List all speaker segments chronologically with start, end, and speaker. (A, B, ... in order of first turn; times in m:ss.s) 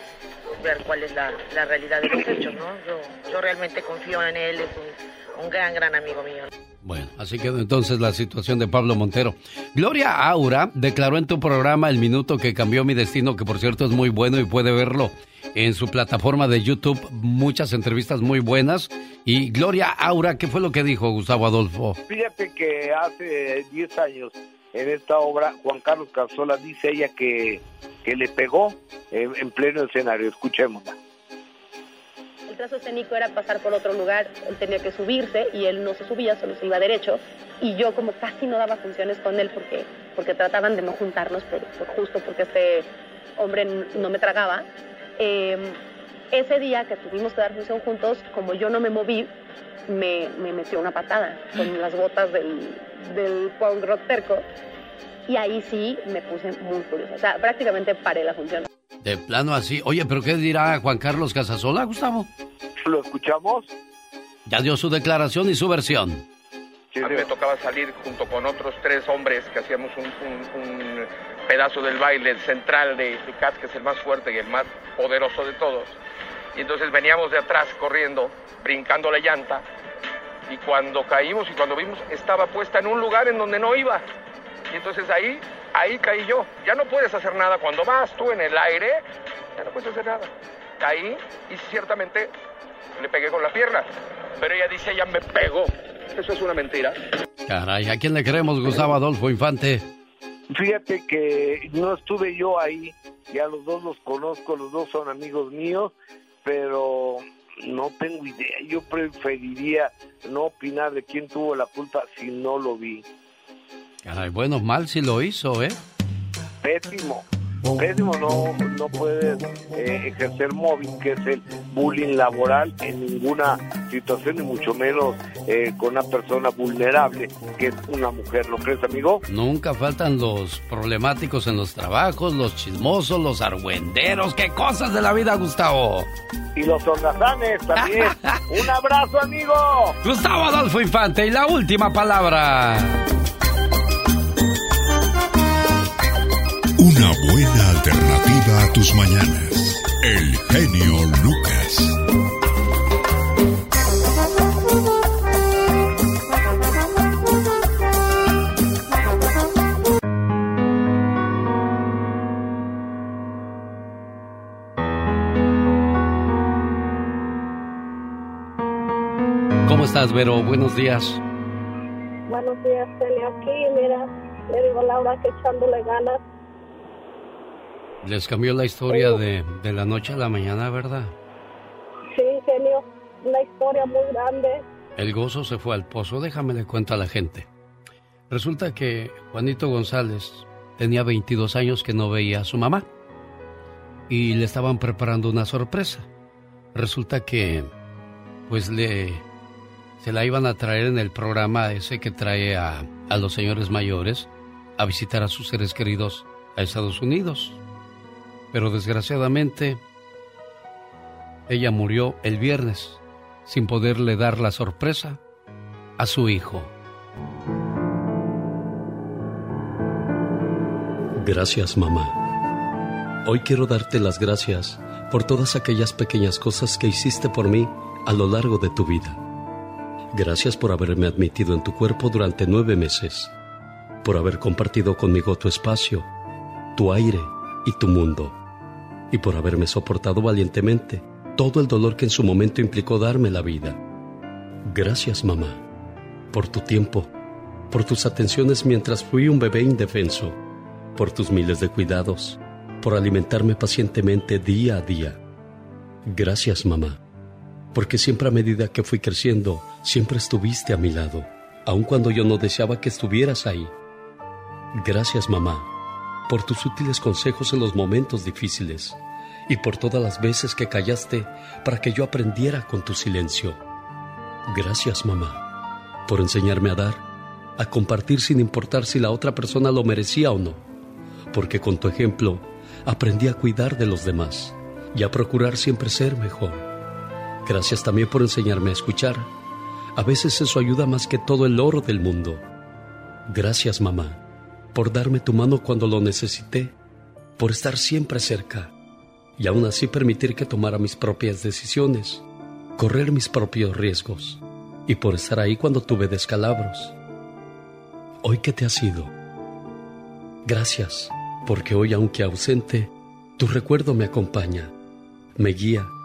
0:00.6-0:06.5 A
0:06.8-0:22.0 B
0:22.1-0:30.9 C
0:32.5-0:42.9 D
0:43.4-0:44.7 D
0:45.2-0:45.8 D
0:46.3-0:49.3 D
0:49.9-0:54.4 D
0:55.3-0:58.7 D
0:59.0-1:02.3 B
1:02.8-1:03.7 C
1:04.4-1:06.2 B
1:06.9-1:07.3 C
1:07.2-1:10.0 E
1:10.6-1:11.0 E
1:11.5-1:15.9 E
1:16.6-1:18.1 E
1:18.9-1:19.6 E
1:20.8-1:21.6 E
1:26.0-1:26.5 E
1:28.3-1:28.8 E
1:29.7-1:30.2 E
1:31.9-1:32.2 E
1:33.1-1:33.8 E
1:34.5-1:35.6 E
1:36.5-1:36.9 E
1:37.4-1:39.9 B
1:40.5-1:45.9 C
1:46.4-1:53.0 C
1:54.0-1:55.8 B
1:56.6-1:57.2 C
1:57.8-2:09.2 C
2:09.3-2:16.1 B
2:16.6-2:20.0 C
2:17.8-2:18.4 B
2:20.0-2:23.0 B
2:26.8-2:32.0 F
2:49.6-2:51.2 B
2:52.3-2:56.2 G
2:58.0-3:01.1 B
2:58.9-2:59.2 G
3:02.1-3:04.6 G
3:05.0-3:07.5 B
3:08.3-3:12.8 B
3:14.1-3:16.1 B
3:16.7-3:17.7 B
3:18.5-3:19.2 B
3:20.0-3:27.6 B
3:28.5-3:29.8 B
3:31.5-3:35.2 B
3:36.0-3:36.7 B
3:41.1-3:42.2 B
3:43.2-3:49.2 B
3:50.1-3:53.3 B
3:54.0-3:56.0 B
3:56.8-3:58.3 B
3:59.1-4:03.8 B
4:04.6-4:05.6 B
4:06.3-4:07.1 B
4:07.7-4:10.4 B
4:11.0-4:15.2 B
4:16.0-4:17.0 B
4:17.7-4:23.7 B
4:24.7-4:25.6 B
4:26.3-4:29.0 B
4:29.5-4:33.6 B
4:34.5-4:35.4 B
4:36.1-4:37.0 B
4:37.6-4:40.6 B
4:41.3-4:46.6 B
4:47.4-4:49.3 B
4:50.0-4:52.4 B
4:53.3-4:54.2 B
4:54.7-4:56.7 B
4:57.4-4:58.7 B
4:59.4-5:02.2 B
5:02.8-5:06.9 B
5:08.2-5:09.1 B
5:10.4-5:14.7 B
5:15.4-5:15.9 B